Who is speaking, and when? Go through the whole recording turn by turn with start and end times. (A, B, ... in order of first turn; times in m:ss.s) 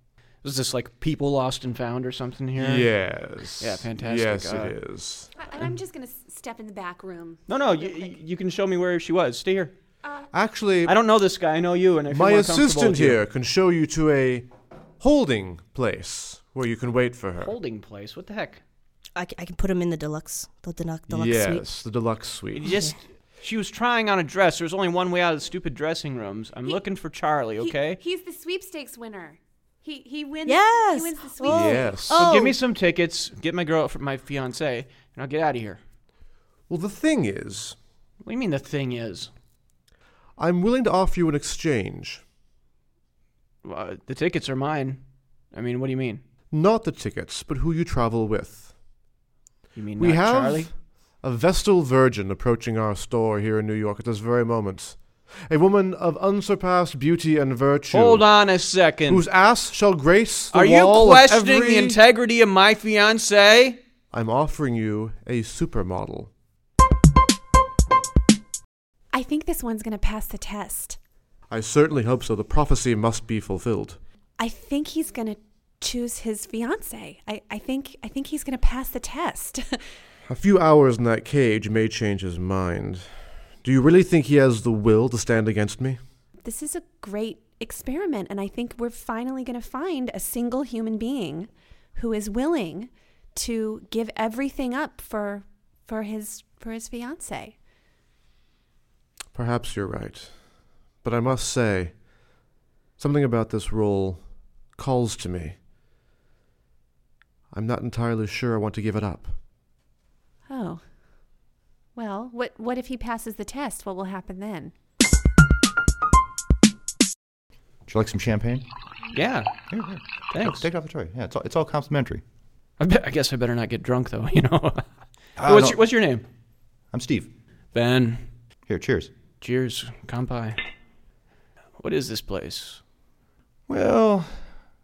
0:00.4-0:02.9 A
0:02.6-0:05.3 B
0:03.6-0:04.8 A
0:05.4-0:08.1 C
0:07.5-0:09.7 A
0:10.3-0:10.9 B
0:10.8-0:13.2 A
0:12.1-0:14.5 B
0:15.0-0:17.5 B
0:17.4-0:18.6 A
0:19.2-0:21.6 D
0:21.1-0:22.7 B
0:22.6-0:28.0 A
0:27.6-0:31.9 C
0:30.4-0:32.6 D
0:31.5-0:32.2 B
0:32.1-0:35.8 A
0:36.7-0:37.8 B
0:38.2-0:39.3 A
0:40.4-0:42.2 B
0:43.6-0:45.0 A
0:45.5-0:46.2 A
0:46.5-0:48.7 B
0:49.8-0:50.7 A
0:50.0-0:58.2 B
0:57.9-0:59.2 A
0:59.1-1:02.0 B
1:00.5-1:03.8 A
1:04.1-1:06.3 B
1:09.1-1:11.0 C
1:11.5-1:14.0 B
1:14.4-1:19.8 C
1:20.3-1:23.1 B
1:23.6-1:26.0 B
1:26.4-1:37.5 C
1:39.3-1:40.4 B
1:41.0-1:42.0 B
1:43.0-1:45.6 B
1:47.5-1:49.3 B
1:50.5-1:50.8 C
1:51.9-1:54.7 C
1:57.9-1:58.6 E
1:59.1-1:59.5 A
1:59.7-2:02.2 E
2:00.3-2:00.6 A
2:02.8-2:04.8 A
2:05.4-2:05.8 E
2:05.4-2:06.2 A
2:06.9-2:07.3 E
2:07.7-2:08.2 A
2:08.7-2:09.1 E
2:09.4-2:10.6 A
2:11.8-2:12.8 A
2:13.7-2:14.5 E